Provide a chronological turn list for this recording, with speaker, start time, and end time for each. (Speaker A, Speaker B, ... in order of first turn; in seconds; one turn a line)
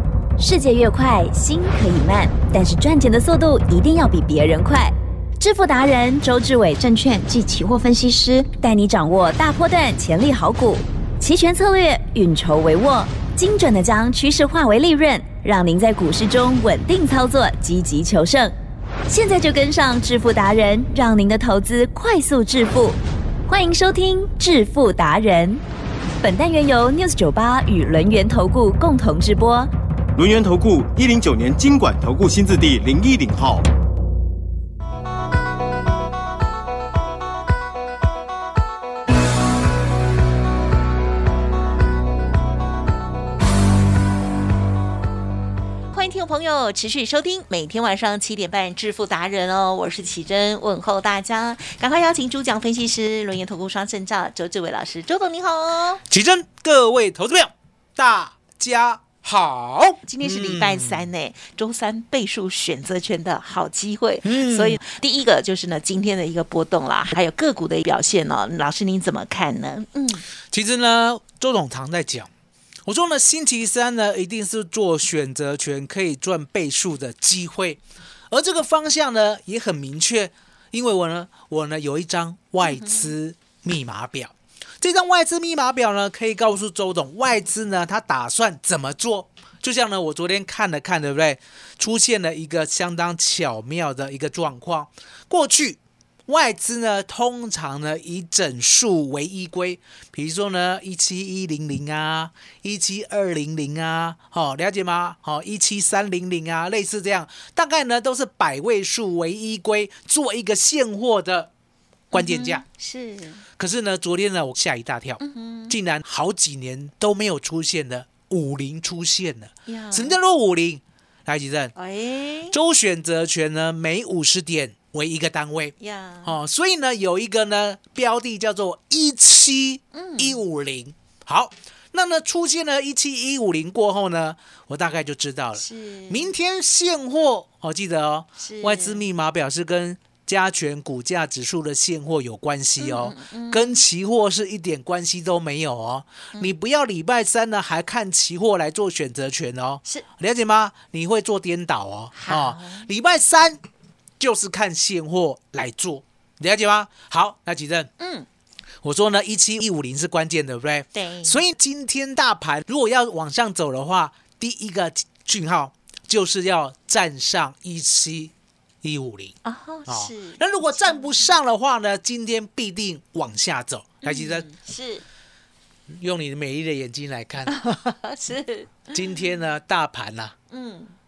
Speaker A: 0.4-18.5
Speaker A: 19.1-25.6
Speaker A: 26.2-29.7
Speaker B: 30.1-33.6
Speaker C: 45.9-56.0
Speaker D: 56.1-61.1
Speaker C: 60.0-70.2
Speaker D: 64.2-64.8
Speaker D: 70.5-72.3
Speaker D: 72.8-111.5
Speaker C: 82.6-83.1
Speaker D: 112.1-112.6
Speaker C: 112.1-113.4
Speaker D: 113.6-121.7
Speaker C: 115.2-115.7
Speaker C: 119.7-120.2
Speaker C: 121.7-122.5
Speaker D: 122.5-125.7
Speaker C: 125.8-126.3
Speaker D: 126.2-153.6
Speaker C: 129.9-130.4
Speaker C: 135.6-136.3
Speaker C: 138.4-139.0
Speaker C: 142.8-143.8
Speaker C: 152.1-152.9
Speaker D: 154.2-157.9
Speaker C: 158.0-158.2
Speaker D: 158.8-168.3
Speaker C: 160.9-161.4
Speaker D: 168.8-169.3
Speaker C: 169.4-171.3
Speaker D: 169.9-174.4
Speaker C: 174.0-175.0
Speaker D: 175.9-177.6
Speaker C: 177.5-179.2
Speaker D: 178.9-180.3
Speaker C: 180.5-180.9